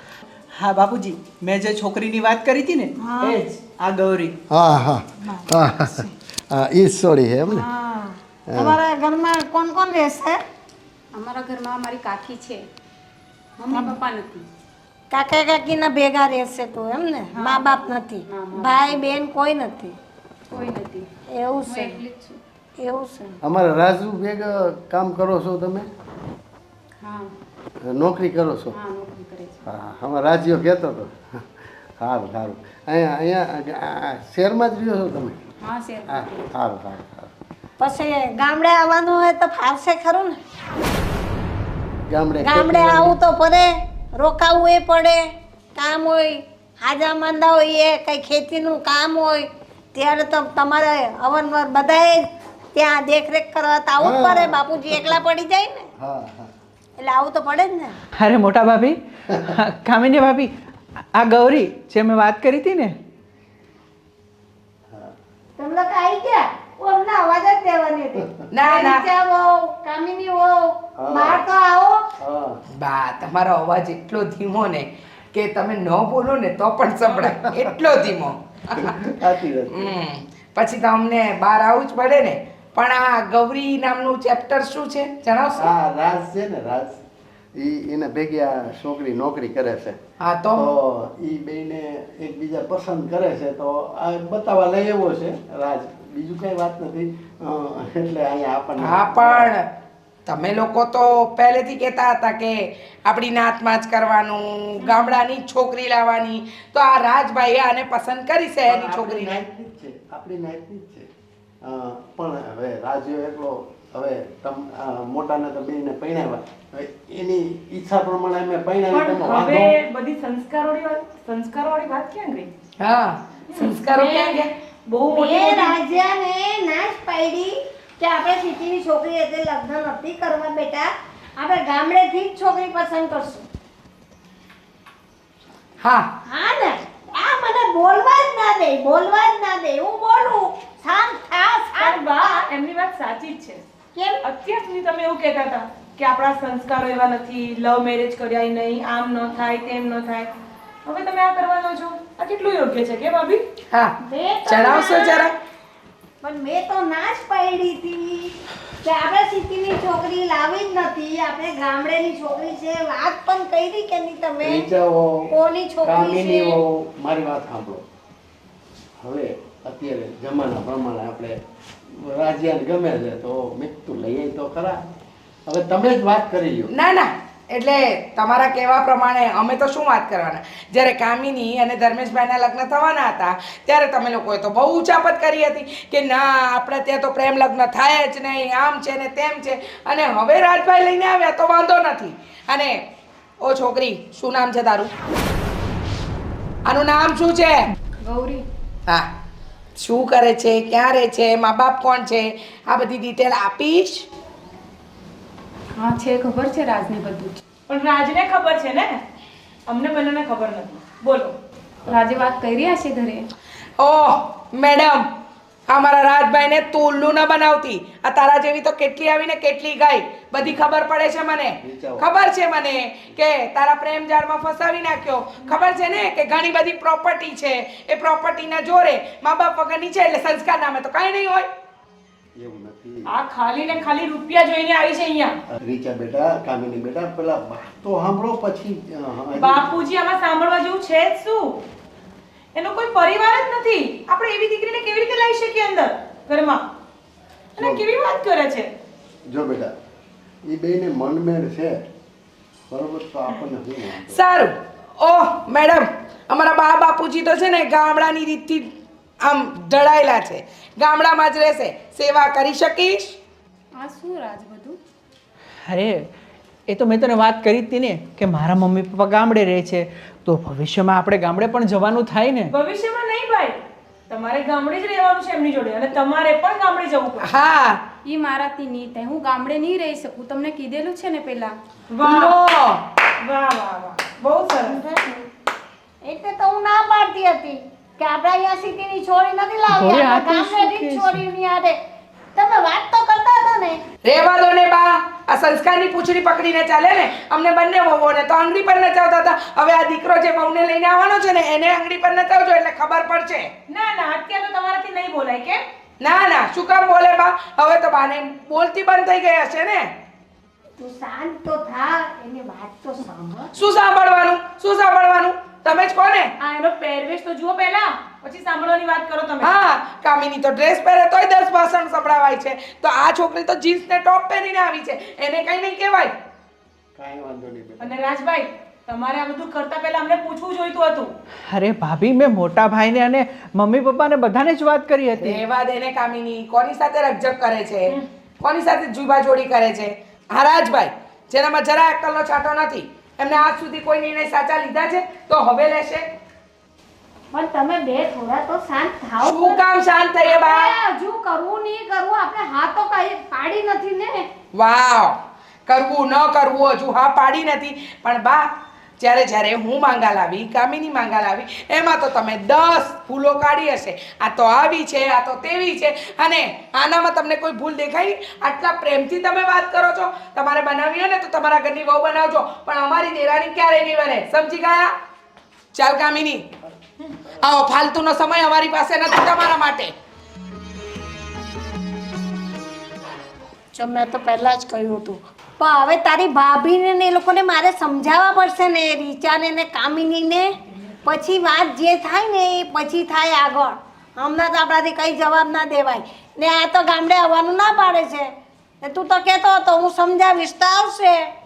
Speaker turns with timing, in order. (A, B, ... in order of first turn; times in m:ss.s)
0:00.6-0:04.3 A
0:03.0-0:03.4 B
0:04.5-0:07.7 C
0:05.3-0:06.1 B
0:07.5-0:10.4 B
0:08.5-0:08.8 C
0:11.1-0:12.6 D
0:13.6-0:14.5 D
0:13.7-0:14.0 B
0:15.1-0:20.0 B
0:17.4-0:17.8 D
0:18.3-0:19.0 D
0:20.5-0:21.1 D
0:21.3-0:22.0 B
0:21.7-0:22.4 D
0:22.8-0:23.4 B
0:23.4-0:25.9 C
0:27.0-0:27.3 D
0:27.9-0:28.8 C
0:28.7-0:29.6 D
0:29.7-0:31.4 C
0:32.0-0:35.4 C
0:35.6-0:36.5 D
0:36.1-0:37.3 C
0:37.8-0:40.4 B
0:42.1-0:43.2 C
0:42.4-0:45.2 B
0:45.8-0:55.9 B
0:54.0-0:55.2 C
0:56.0-0:56.5 C
0:57.0-0:58.0 B
0:58.2-0:58.9 A
0:59.6-1:00.3 A
1:01.2-1:02.9 A
1:05.6-1:12.0 B
1:08.5-1:09.1 E
1:11.0-1:11.5 C
1:12.2-1:12.6 C
1:12.8-1:19.0 E
1:17.1-1:17.8 C
1:18.8-1:20.0 C
1:19.7-1:25.7 E
1:25.6-1:27.0 C
1:27.6-1:30.0 C
1:30.2-1:30.7 E
1:30.5-1:39.5 C
1:38.8-1:39.6 E
1:40.3-1:49.4 E
1:48.6-1:51.1 C
1:51.6-1:59.8 C
1:58.9-2:02.5 F
2:02.8-2:04.5 E
2:03.5-2:05.8 F
2:05.1-2:13.5 B
2:15.8-2:16.1 E
2:16.3-2:22.5 B
2:21.8-2:23.6 F
2:24.0-2:24.2 B
2:24.2-2:30.3 F
2:30.8-2:33.4 F
2:34.0-2:35.3 B
2:34.4-2:35.3 E
2:36.2-2:44.7 B
2:44.4-2:47.8 C
2:45.3-2:46.6 B
2:49.0-2:51.4 C
2:51.9-2:54.8 C
2:55.5-2:56.7 C
2:56.7-3:12.8 E
3:13.4-3:14.9 E
3:16.7-3:17.7 E
3:18.0-3:18.4 D
3:19.8-3:24.1 E
3:25.8-3:27.4 D
3:27.7-3:29.0 F
3:29.7-3:31.4 F
3:31.9-3:33.3 D
3:33.8-3:35.1 E
3:35.7-3:51.5 E
3:41.6-3:42.1 C
3:52.4-3:53.1 C
3:53.1-3:55.4 F
3:55.6-3:59.8 C
3:59.4-4:01.6 F
4:02.6-4:06.7 F
4:07.6-4:08.7 F
4:07.6-4:07.8 C
4:09.3-4:09.7 C
4:10.4-4:11.8 C
4:12.7-4:14.2 C
4:14.1-4:18.7 E
4:19.2-4:23.2 E
4:23.8-4:24.8 D
4:25.7-4:26.0 A
4:26.7-4:32.4 A
4:32.5-4:37.3 F
4:37.2-4:37.8 E
4:38.0-4:41.6 D
4:41.9-4:42.5 F
4:42.0-4:42.8 E
4:43.2-4:44.8 F
4:44.6-4:45.3 B
4:46.0-4:51.8 B
4:49.9-4:51.1 A
4:52.4-4:53.8 B
4:54.0-5:03.5 E
5:03.7-5:05.6 F
5:06.0-5:09.9 E
5:10.8-5:13.5 B
5:13.5-5:16.3 E
5:16.4-5:19.6 F
5:19.4-5:26.2 E
5:27.0-5:28.0 C
5:27.8-5:31.1 F
5:31.6-5:35.2 A
5:35.2-5:46.1 E
5:47.3-5:49.6 B
5:49.2-5:50.8 E
5:50.2-5:54.3 B
5:54.5-6:14.9 E
6:15.7-6:16.5 E
6:17.4-6:19.9 E
6:23.7-6:41.3 B